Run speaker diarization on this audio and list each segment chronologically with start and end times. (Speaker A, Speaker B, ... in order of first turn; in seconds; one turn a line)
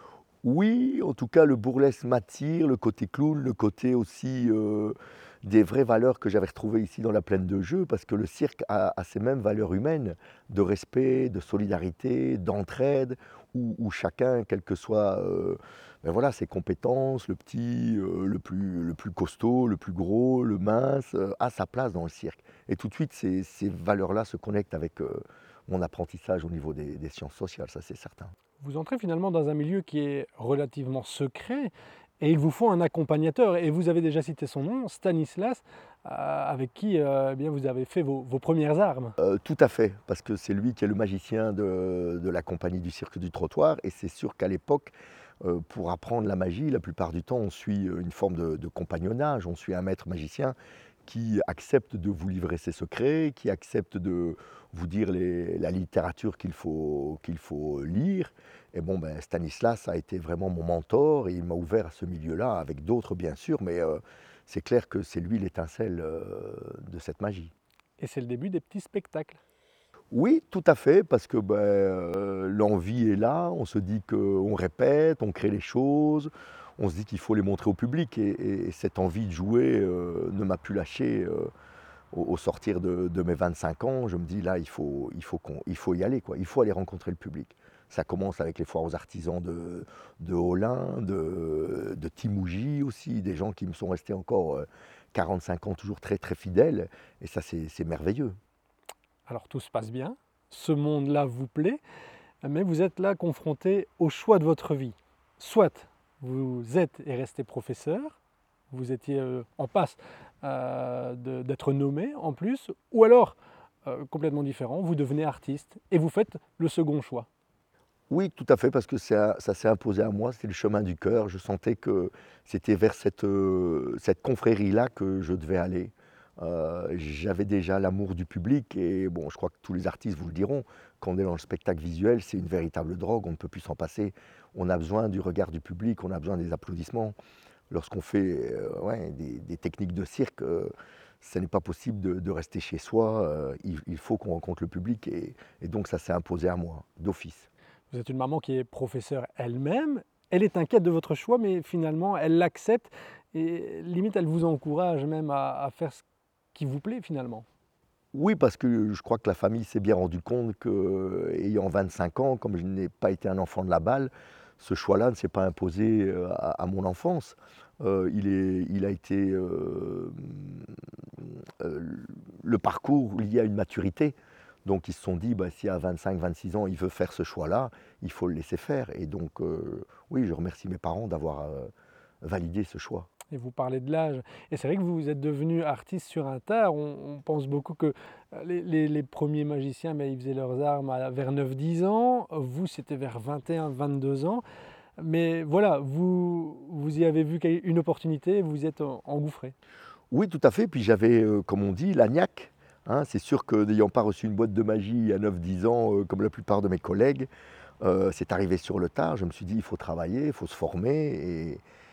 Speaker A: 0.4-28.3
Speaker B: 28.6-39.1
Speaker A: 39.2-67.5
Speaker B: 68.0-69.4
Speaker A: 70.1-81.5
Speaker A: 82.1-98.4
Speaker B: 99.3-101.8
Speaker B: 102.4-108.2
Speaker B: 108.7-117.3
Speaker A: 118.1-137.1
Speaker A: 137.7-147.5
Speaker B: 147.9-156.0
Speaker B: 156.5-157.4
Speaker A: 158.1-181.7
Speaker A: 182.2-183.1
Speaker B: 183.3-194.4
Speaker B: 195.0-199.5
Speaker A: 200.1-207.3
Speaker A: 207.8-211.6